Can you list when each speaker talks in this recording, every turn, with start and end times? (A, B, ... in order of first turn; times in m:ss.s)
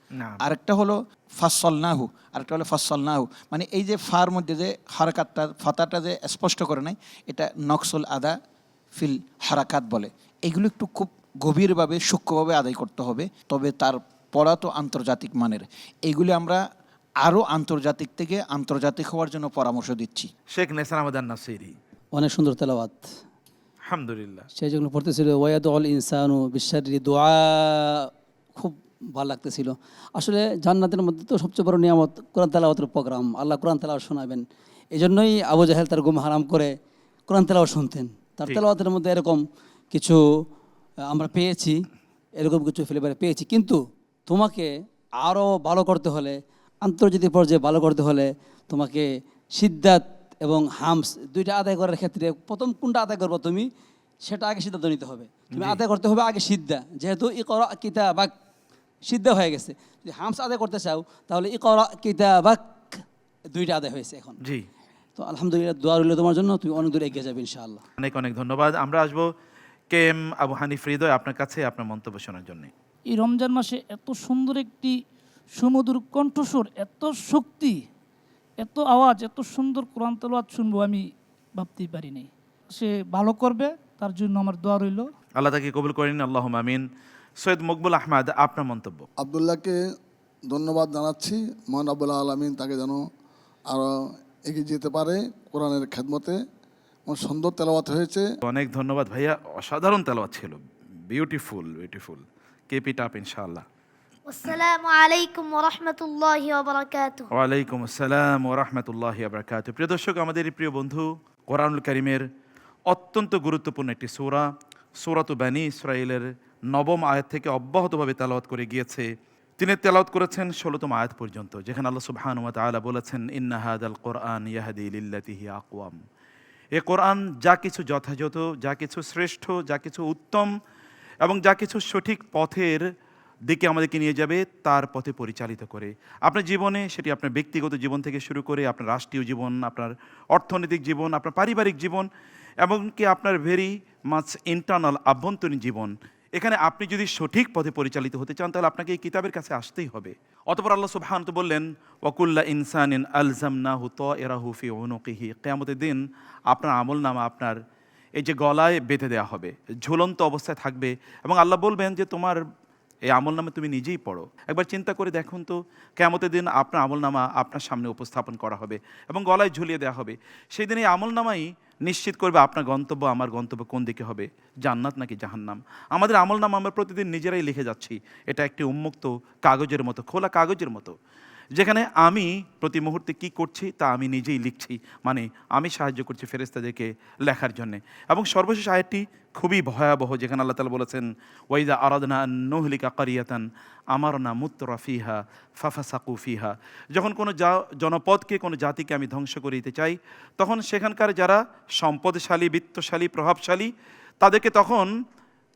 0:00.2-0:00.4 A
0:00.4-0:08.4 B
0:09.0-0:16.6 B
0:17.2-0:20.3 B
0:20.5-0:21.8 A
0:22.1-0:23.1 C
0:23.8-0:24.5 A
0:24.6-0:36.7 C
0:37.3-0:40.2 C
0:41.1-0:41.8 C
0:42.4-0:53.7 C
0:54.2-0:58.3 C
0:55.5-0:55.8 A
0:59.1-1:04.4 C
1:05.2-1:07.8 C
1:08.0-1:09.3 A
1:09.9-1:12.7 A
1:13.1-1:15.0 D
1:15.6-1:17.8 D
1:18.6-1:25.1 D
1:25.4-1:26.8 A
1:27.4-1:29.1 A
1:29.2-1:29.8 E
1:30.5-1:33.0 E
1:34.5-1:36.4 E
1:37.1-1:38.2 E
1:38.4-1:43.6 A
1:44.3-1:47.3 F
1:47.4-1:52.2 A
1:52.9-1:54.4 A
1:55.0-1:59.1 A
1:59.6-2:06.0 A
2:06.8-2:10.5 A
2:11.2-2:12.8 A
2:13.5-2:22.1 A
2:22.6-2:36.0 A
2:36.5-2:37.6 A
2:38.2-2:42.4 A
2:43.1-3:01.0 A
3:01.6-3:13.4 A
3:14.0-3:23.7 A
3:24.2-3:24.9 A